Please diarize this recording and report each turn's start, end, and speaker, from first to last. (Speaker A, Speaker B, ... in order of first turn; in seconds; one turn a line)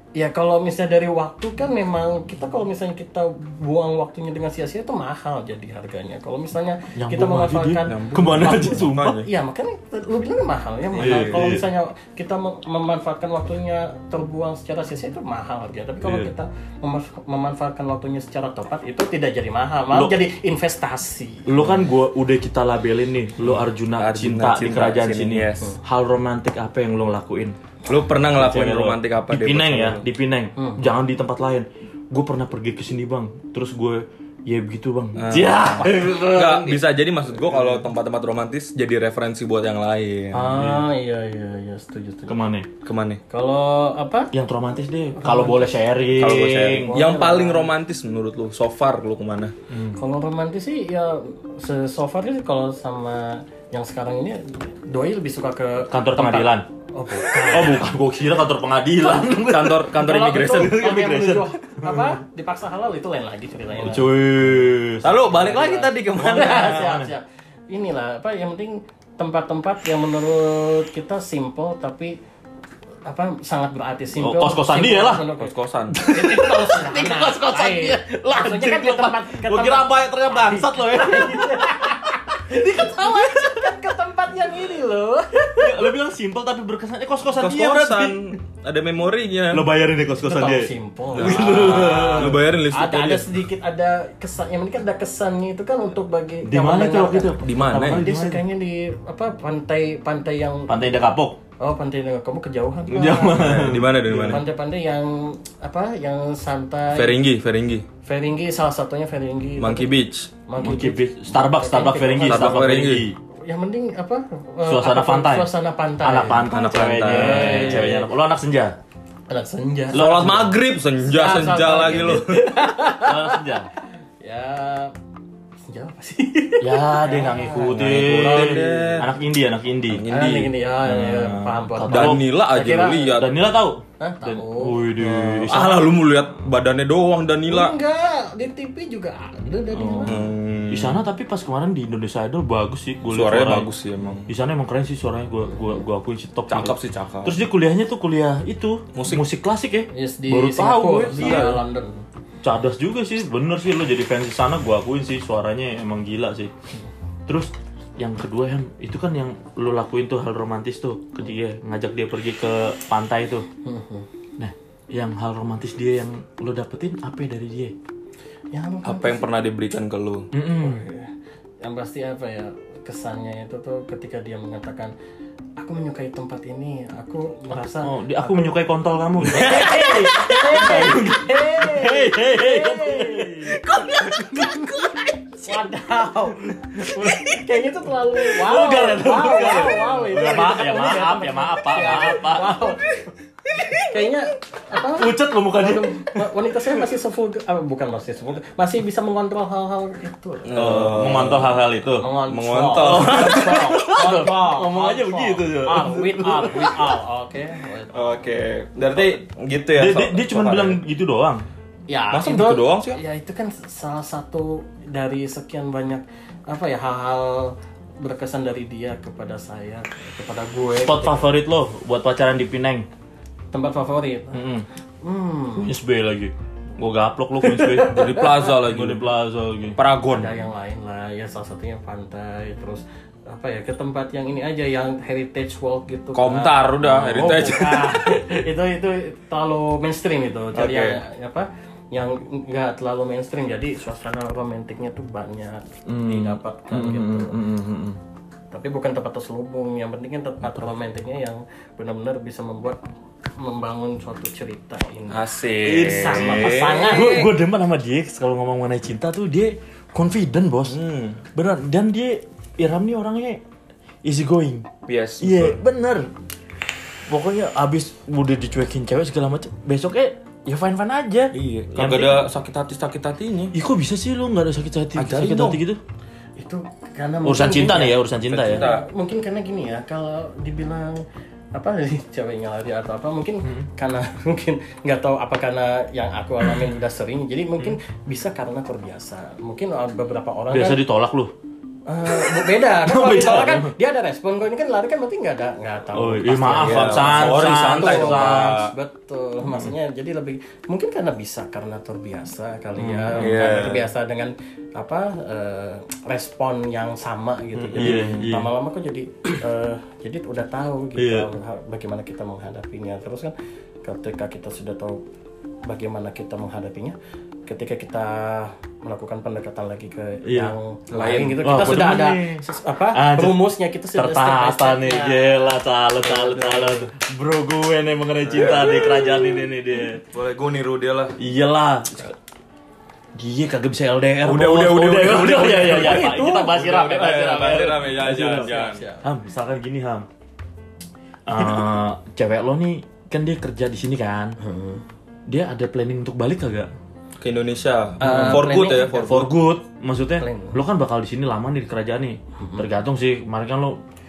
Speaker A: 0.1-21.5
Speaker B: 7.0-9.2
Speaker C: 7.9-9.3
Speaker B: 10.9-11.7
Speaker C: 11.0-11.5
Speaker B: 16.0-16.3
Speaker B: 19.9-20.2
Speaker B: 21.4-27.6
Speaker C: 23.9-25.7
Speaker C: 27.9-30.0
Speaker B: 28.3-36.8
Speaker A: 30.6-30.9
Speaker C: 35.1-40.5
Speaker A: 40.3-42.4
Speaker B: 40.5-40.9
Speaker B: 42.2-42.7
Speaker C: 42.8-43.2
Speaker A: 43.3-44.3
Speaker B: 44.3-47.0
Speaker A: 45.2-45.9
Speaker C: 46.1-49.5
Speaker A: 46.7-47.7
Speaker B: 49.7-50.0
Speaker A: 50.0-57.9
Speaker B: 55.9-62.1
Speaker C: 59.2-60.9
Speaker A: 59.9-64.2
Speaker B: 63.8-65.1
Speaker C: 65.0-66.9
Speaker A: 65.2-72.2
Speaker B: 66.1-67.1
Speaker A: 73.0-85.9
Speaker B: 74.2-75.2
Speaker C: 75.4-76.0
Speaker B: 75.9-83.5
Speaker B: 85.5-88.3
Speaker C: 87.3-89.7
Speaker B: 89.5-92.4
Speaker A: 90.2-100.9
Speaker C: 91.2-93.3
Speaker B: 96.4-98.4
Speaker C: 97.4-98.0
Speaker B: 100.7-101.4
Speaker A: 101.6-107.2
Speaker B: 102.9-104.4
Speaker C: 103.4-104.4
Speaker C: 106.9-107.8
Speaker A: 108.0-109.9
Speaker C: 109.6-110.3
Speaker A: 110.5-112.7
Speaker B: 110.6-113.2
Speaker C: 112.2-113.0
Speaker A: 113.5-118.1
Speaker B: 114.7-115.5
Speaker B: 116.0-118.8
Speaker C: 116.5-117.9
Speaker A: 119.3-120.1
Speaker B: 119.9-120.5
Speaker C: 119.9-122.5
Speaker A: 121.0-123.5
Speaker B: 123.0-123.7
Speaker A: 124.2-124.9
Speaker A: 125.7-128.9
Speaker B: 126.6-130.0
Speaker C: 127.9-129.1
Speaker C: 129.9-130.5
Speaker A: 130.1-133.2
Speaker B: 130.8-132.3
Speaker C: 131.9-133.3
Speaker B: 133.1-135.9
Speaker A: 134.0-134.8
Speaker C: 135.0-137.7
Speaker A: 137.5-140.2
Speaker B: 139.7-143.7
Speaker C: 140.1-141.0
Speaker C: 143.1-144.3
Speaker B: 144.3-151.6
Speaker C: 146.5-147.4
Speaker C: 148.9-149.2
Speaker A: 149.9-152.0
Speaker C: 151.1-151.6
Speaker B: 152.4-156.5
Speaker B: 157.3-163.4
Speaker A: 163.6-164.1
Speaker B: 164.4-167.8
Speaker A: 168.5-169.3
Speaker C: 168.8-170.3
Speaker B: 170.3-170.8
Speaker A: 170.5-174.9
Speaker A: 175.6-178.5
Speaker B: 177.8-185.6
Speaker A: 179.2-184.8
Speaker A: 185.4-192.9
Speaker B: 186.7-187.4
Speaker B: 188.2-192.7
Speaker B: 193.6-193.9
Speaker A: 193.9-201.3
Speaker B: 194.8-196.8
Speaker C: 200.4-201.6
Speaker B: 200.5-202.1
Speaker A: 202.0-208.2
Speaker C: 202.3-203.8
Speaker B: 202.8-207.0
Speaker C: 207.9-210.8
Speaker B: 209.8-211.4
Speaker A: 211.9-221.2
Speaker C: 212.1-213.0
Speaker B: 220.7-222.9
Speaker A: 223.5-224.4
Speaker B: 224.3-224.7
Speaker A: 225.0-225.7
Speaker B: 225.6-229.8
Speaker A: 227.5-228.3
Speaker C: 227.8-229.1
Speaker C: 229.8-230.4
Speaker A: 230.1-247.4
Speaker C: 236.1-238.0
Speaker B: 236.9-237.8
Speaker C: 240.5-241.0
Speaker B: 245.8-248.0
Speaker A: 248.5-252.8
Speaker A: 253.3-257.3
Speaker C: 255.1-257.3
Speaker B: 255.6-260.8
Speaker C: 260.7-261.2
Speaker B: 261.3-263.4
Speaker B: 264.0-264.7
Speaker C: 264.9-265.6
Speaker B: 265.2-266.1
Speaker B: 267.1-272.3
Speaker C: 271.3-273.5
Speaker B: 273.5-275.8
Speaker C: 274.9-275.6
Speaker A: 276.4-290.8
Speaker B: 277.2-278.7
Speaker C: 278.3-278.8
Speaker B: 290.5-291.3
Speaker A: 291.9-315.0
Speaker B: 292.1-293.7
Speaker B: 295.9-298.6
Speaker C: 296.6-298.7
Speaker B: 302.8-303.7
Speaker C: 303.2-303.9
Speaker B: 307.5-308.5
Speaker B: 310.9-311.3
Speaker A: 315.6-326.9
Speaker B: 320.2-320.5
Speaker C: 320.9-321.9
Speaker B: 321.4-330.0
Speaker C: 328.2-329.2
Speaker A: 328.5-329.2
Speaker C: 330.1-331.2
Speaker B: 331.2-332.1
Speaker B: 333.1-340.1
Speaker C: 334.2-338.8
Speaker A: 335.6-339.1
Speaker B: 341.2-344.4
Speaker A: 344.4-344.8
Speaker B: 345.3-346.7
Speaker C: 347.2-349.3
Speaker A: 348.0-349.2
Speaker B: 348.0-353.8
Speaker A: 350.2-350.6
Speaker A: 352.4-352.6